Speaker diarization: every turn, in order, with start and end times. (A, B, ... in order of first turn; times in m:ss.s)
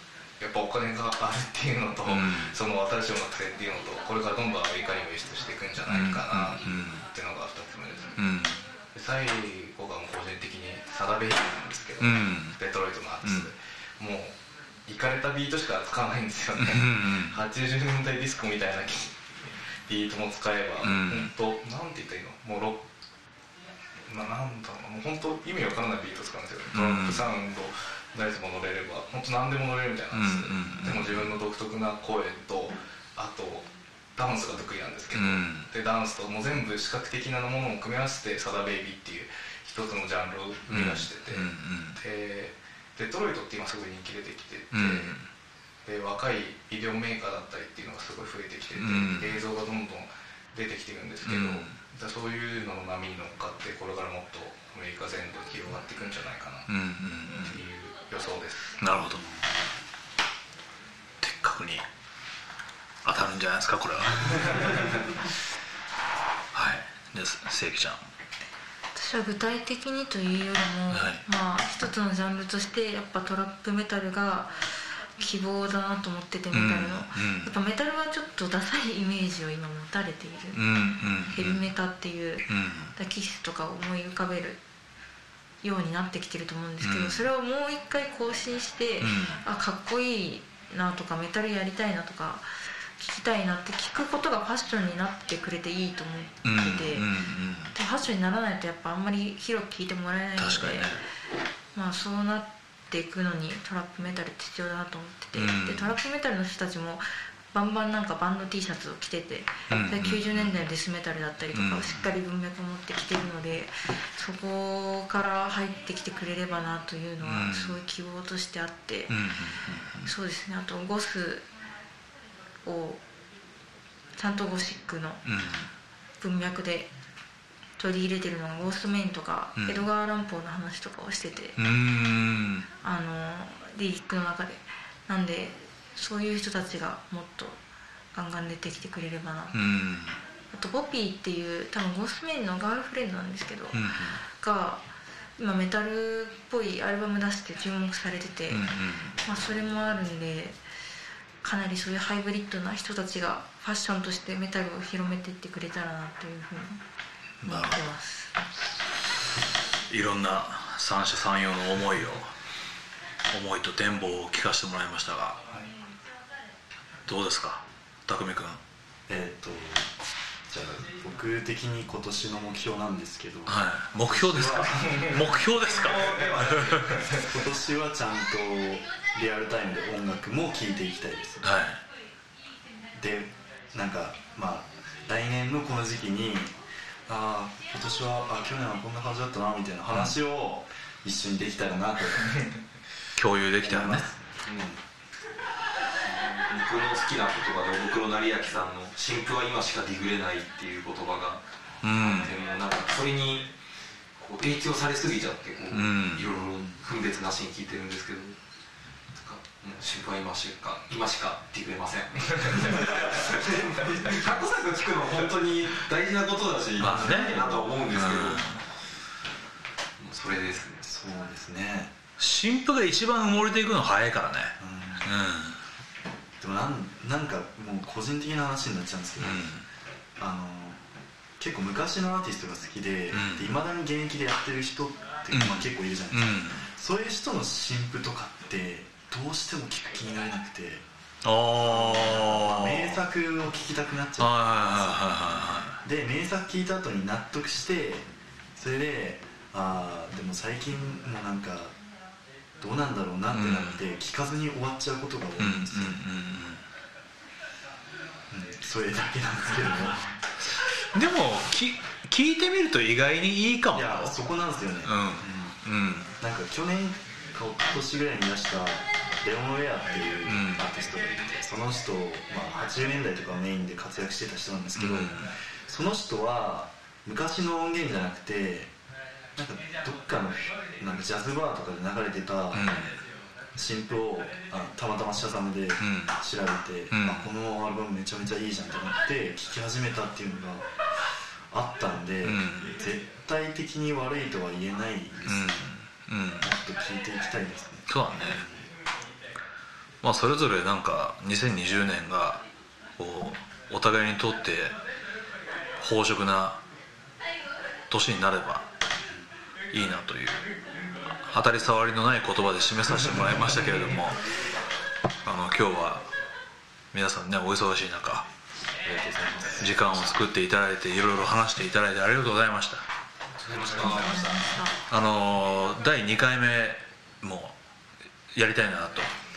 0:00.4-0:08.2 A
0:02.1-0:02.5 B
0:05.9-0:07.1 B
0:08.2-0:08.6 B
0:08.9-0:14.3 A
0:12.0-0:12.6 B
0:13.2-0:13.5 B
0:14.9-0:19.3 A
0:16.6-0:17.4 B
0:19.9-0:22.9 A
0:20.8-0:21.3 B
0:24.1-0:45.2 A
0:26.7-0:27.2 B
0:30.1-0:31.3 B
0:35.1-0:35.7 B
0:40.7-0:42.0 B
0:44.7-0:45.3 B
0:45.8-0:56.7 A
0:48.8-0:49.3 B
0:51.2-0:51.8 B
0:56.7-0:57.6 B
0:57.3-0:58.8 A
0:58.8-0:59.2 B
1:01.2-1:01.8 B
1:03.0-1:04.8 B
1:06.5-1:08.1 B
1:09.0-1:20.7 C
1:10.9-1:11.2 B
1:16.5-1:17.5 B
1:20.5-1:21.6 B
1:21.2-1:24.6 C
1:22.5-1:22.9 B
1:25.6-1:37.1 C
1:26.8-1:27.2 B
1:29.0-1:29.4 B
1:36.4-1:37.7 B
1:37.7-1:41.0 C
1:40.4-1:41.0 B
1:41.7-1:59.3 C
1:45.4-1:45.9 B
1:49.7-1:50.5 B
1:51.5-1:52.0 B
1:57.2-1:57.8 B
1:59.1-2:00.1 B
2:00.0-2:01.5 C
2:02.6-2:03.0 C
2:04.2-2:05.2 C
2:05.2-2:05.7 B
2:06.2-2:06.9 C
2:07.8-2:11.6 C
2:09.6-2:09.9 B
2:11.6-2:12.6 B
2:12.8-2:17.6 C
2:18.1-2:19.6 C
2:19.5-2:20.2 B
2:20.5-2:24.9 C
2:23.7-2:24.2 B
2:25.4-2:28.7 C
2:28.5-2:29.2 B
2:29.2-2:30.6 C
2:31.4-2:36.8 C
2:37.4-2:37.8 B
2:37.4-2:38.4 C
2:39.9-2:42.3 B
2:43.3-2:45.4 B
2:47.1-2:48.6 B
2:49.1-2:49.9 D
2:50.5-2:55.1 D
2:53.5-2:57.0 B
2:55.8-2:57.3 A
2:57.2-3:01.4 D
3:01.4-3:01.8 B
3:02.9-3:06.6 D
3:07.1-3:12.4 D
3:13.2-3:14.1 B
3:13.6-3:14.8 D
3:16.0-3:21.4 E
3:21.8-3:22.3 B
3:22.0-3:23.5 E
3:24.2-3:28.4 E
3:25.7-3:26.3 B
3:29.2-3:38.4 E
3:36.8-3:38.6 B
3:36.8-3:37.6 D
3:40.0-3:40.9 E
3:40.8-3:41.9 D
3:42.2-3:45.6 B
3:44.6-3:45.1 D
3:46.4-3:49.5 D
3:49.2-3:49.6 B
3:50.2-3:50.8 D
3:51.4-4:00.8 D
3:53.1-3:53.5 B
3:55.3-3:56.6 B
4:01.2-4:03.0 B
4:01.6-4:05.2 D
4:04.2-4:05.8 B
4:05.8-4:11.8 D
4:12.6-4:16.0 D
4:13.3-4:13.8 B
4:15.4-4:16.6 B
4:18.3-4:20.0 D
4:20.9-4:24.2 B
4:23.7-4:25.6 D
4:24.8-4:26.1 B
4:26.2-4:38.7 D
4:30.3-4:30.6 B
4:34.8-4:35.3 B
4:39.4-4:42.8 D
4:42.5-4:43.0 B
4:43.6-4:50.8 D
4:45.8-4:46.2 B
4:46.9-4:47.3 B
4:51.5-4:55.7 D
4:52.2-4:52.8 B
4:55.3-4:56.5 B
4:56.4-4:58.7 D
4:57.9-4:58.4 B
5:00.0-5:02.4 B
5:03.0-5:04.8 B
5:05.8-5:06.6 B
5:07.9-5:08.7 B
5:09.7-5:10.4 B
5:11.3-5:14.2 B
5:15.2-5:16.0 B
5:16.9-5:18.3 B
5:18.8-5:20.2 D
5:19.6-5:22.8 B
5:23.4-5:24.2 E
5:23.7-5:24.2 D
5:23.8-5:24.8 C
5:24.9-5:27.6 B
5:28.3-5:29.1 B